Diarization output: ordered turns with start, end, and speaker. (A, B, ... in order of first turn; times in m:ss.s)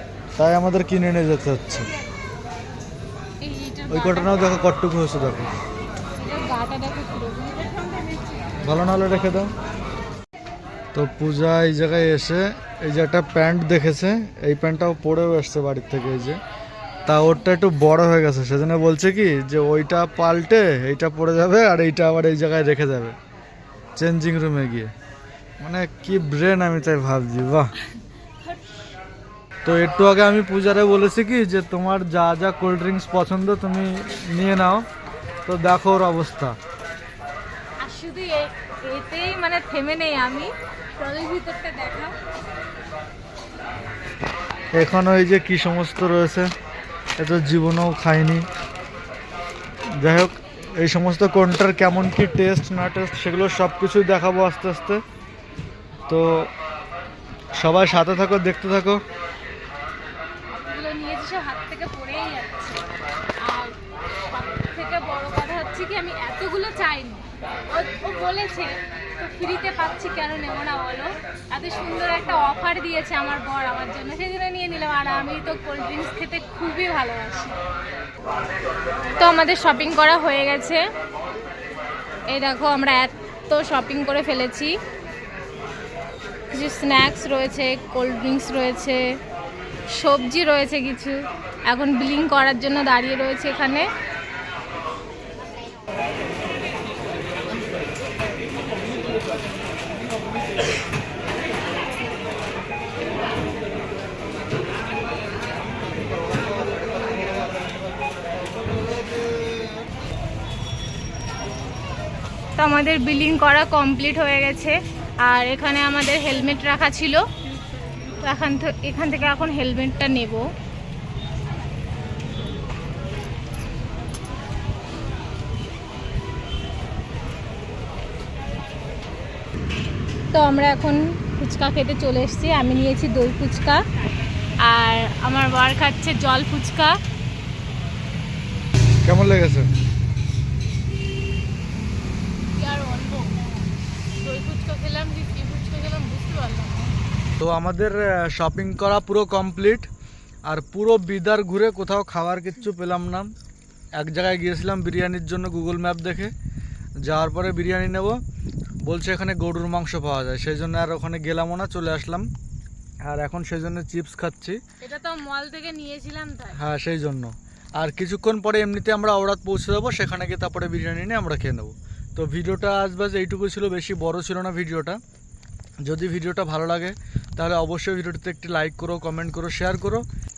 0:00.4-0:01.9 A
0:03.4-0:04.3 B
0:03.9-0:05.5 A
0:06.2-0:08.2 B
0:08.6-0:09.5 A
0:10.9-0:16.4 A
0:17.1-0:23.2 A
0:24.0-0:24.9 A
0:25.6-0:27.7 A
0:28.4-0:28.8 B
0:29.6-0:34.8 A
0:35.5-0:36.6 A
0:37.8-0:42.2 B
0:44.8-0:46.5 A
0:47.2-0:48.5 A
0:50.0-0:55.0 A
0:56.1-0:56.5 A
0:57.5-0:59.0 A
1:00.5-1:17.6 B
1:19.2-1:20.8 B
1:22.3-1:24.7 B
1:26.5-1:29.0 B
1:29.9-1:33.9 B
1:52.6-1:57.3 B
1:58.0-2:00.4 B
2:10.3-2:13.8 B
2:14.6-2:17.0 B
2:19.0-2:19.7 A
2:22.6-2:23.4 B
2:24.1-2:26.9 B
2:27.4-2:29.9 A
2:30.5-2:33.3 A
2:34.0-2:36.3 A
2:37.0-2:38.2 A
2:38.9-2:42.3 A
2:43.0-2:44.6 A
2:44.8-2:46.6 B
2:46.6-2:55.0 A
2:55.8-3:00.0 A